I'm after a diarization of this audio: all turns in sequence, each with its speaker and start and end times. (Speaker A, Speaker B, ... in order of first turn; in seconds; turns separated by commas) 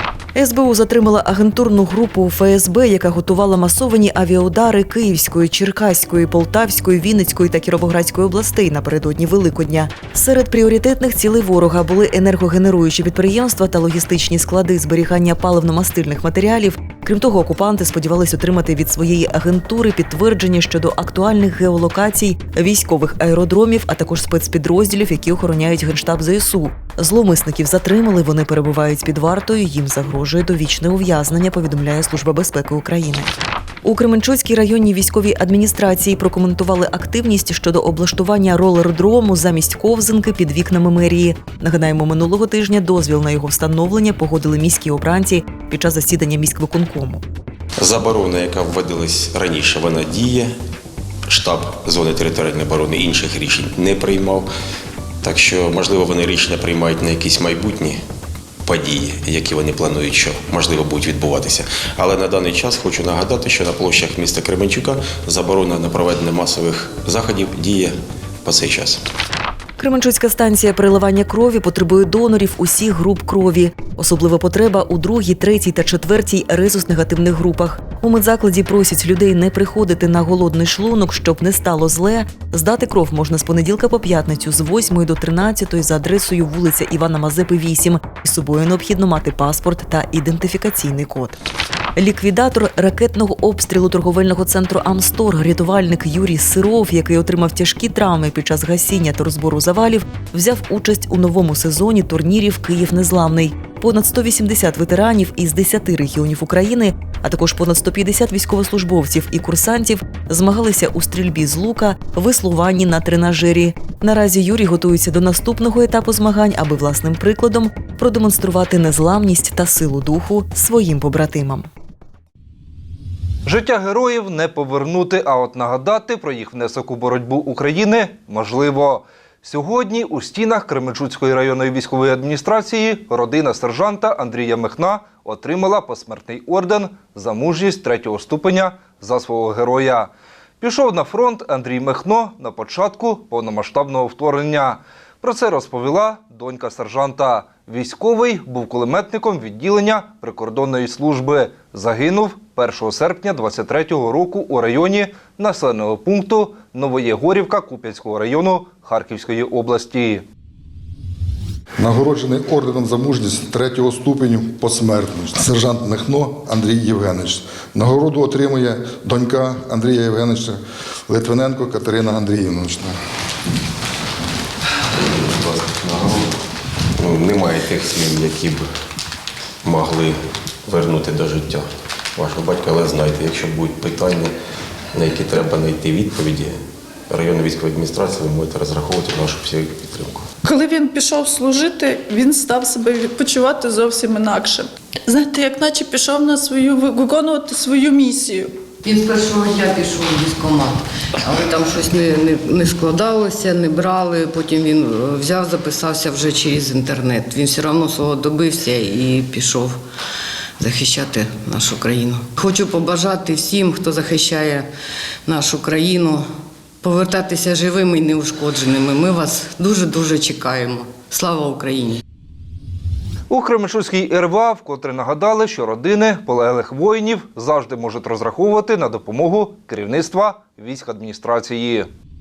Speaker A: 0.3-33.3, Speaker A: 33.8-47.2, Speaker B: 47.8-50.5, Speaker B: 51.3-54.5, Speaker B: 55.2-58.0, Speaker B: 58.6-69.0, Speaker A: 69.8-91.4, Speaker A: 92.0-121.7, Speaker C: 123.5-160.2, Speaker D: 161.8-173.0, Speaker B: 175.0-176.3, Speaker B: 177.0-178.6, Speaker B: 179.6-184.3, Speaker B: 184.9-186.6, Speaker B: 187.1-190.2, Speaker E: 190.4-198.5, Speaker F: 198.8-209.8, Speaker F: 210.6-214.7, Speaker F: 215.2-216.2, Speaker F: 216.8-222.0, Speaker C: 223.3-231.9